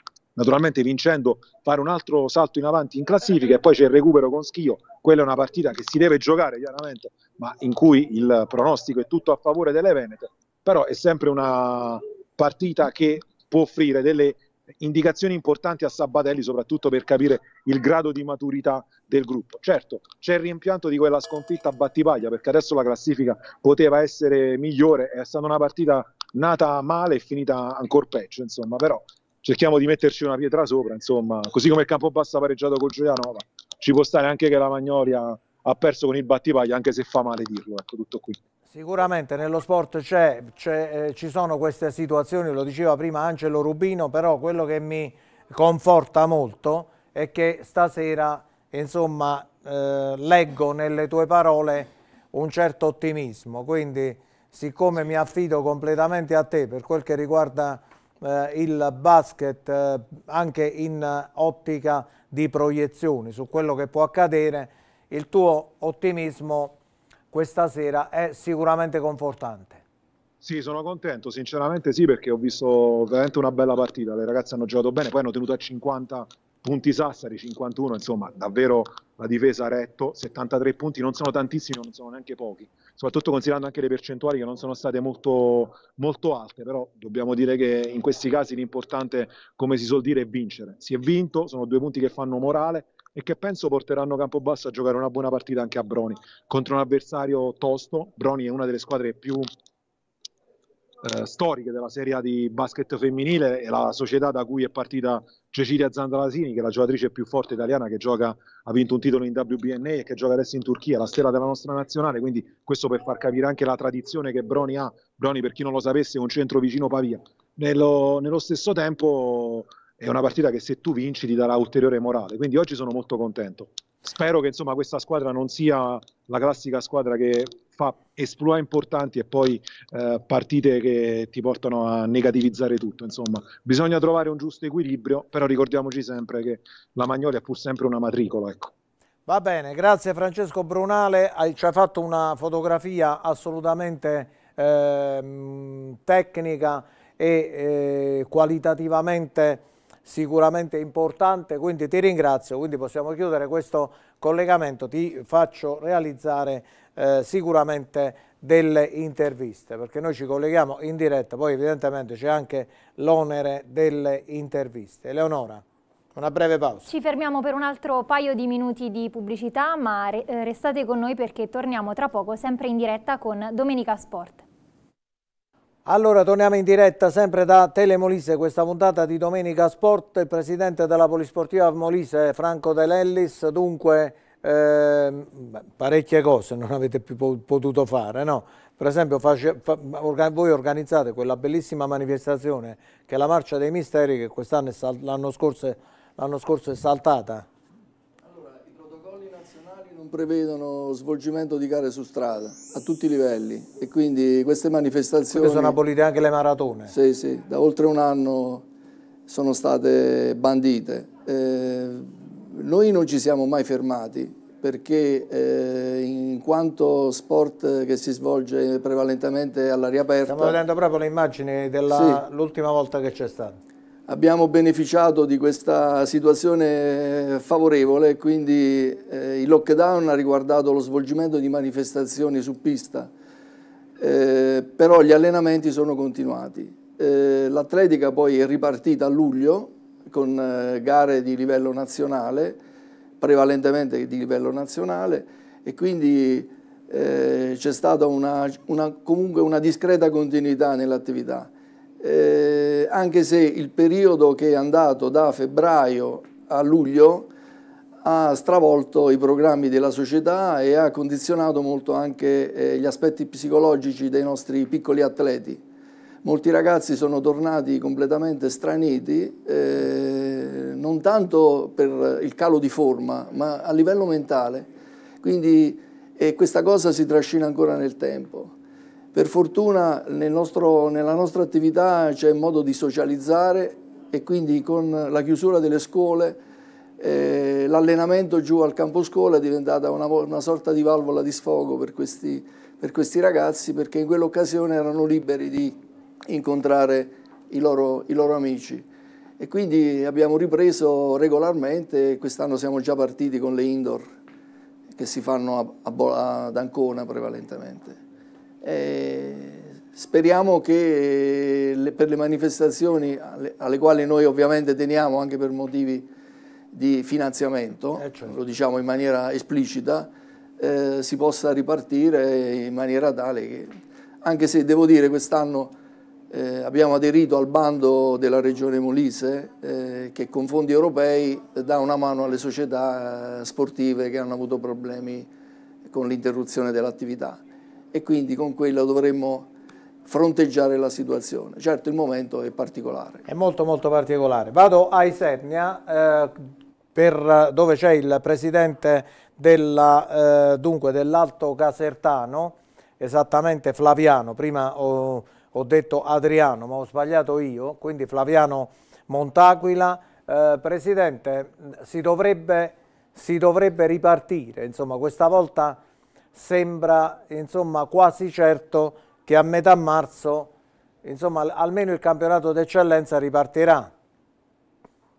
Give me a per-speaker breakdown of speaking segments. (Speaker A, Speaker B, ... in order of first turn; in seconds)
Speaker A: 0.3-38.4, 70.4-99.5, 101.0-138.7
Speaker B: 38.7-66.8, 67.3-69.8, 139.3-165.6, 166.1-166.8, 175.8-197.5, 205.3-206.9, 220.2-223.6, 318.0-318.4, 343.3-346.4, 346.9-365.8, 366.3-370.5, 371.0-373.9
Speaker C: 166.8-174.4
Speaker D: 198.3-205.8, 206.9-208.7, 209.3-220.6, 221.9-222.2, 224.1-233.1, 234.0-242.6, 243.2-257.3, 258.0-265.6, 266.2-274.7, 275.2-278.5, 279.1-286.4, 287.0-298.9, 299.4-304.1, 304.9-308.0, 308.6-316.1, 316.7-325.7, 326.3-335.3, 335.9-337.4, 337.9-339.5, 340.1-343.2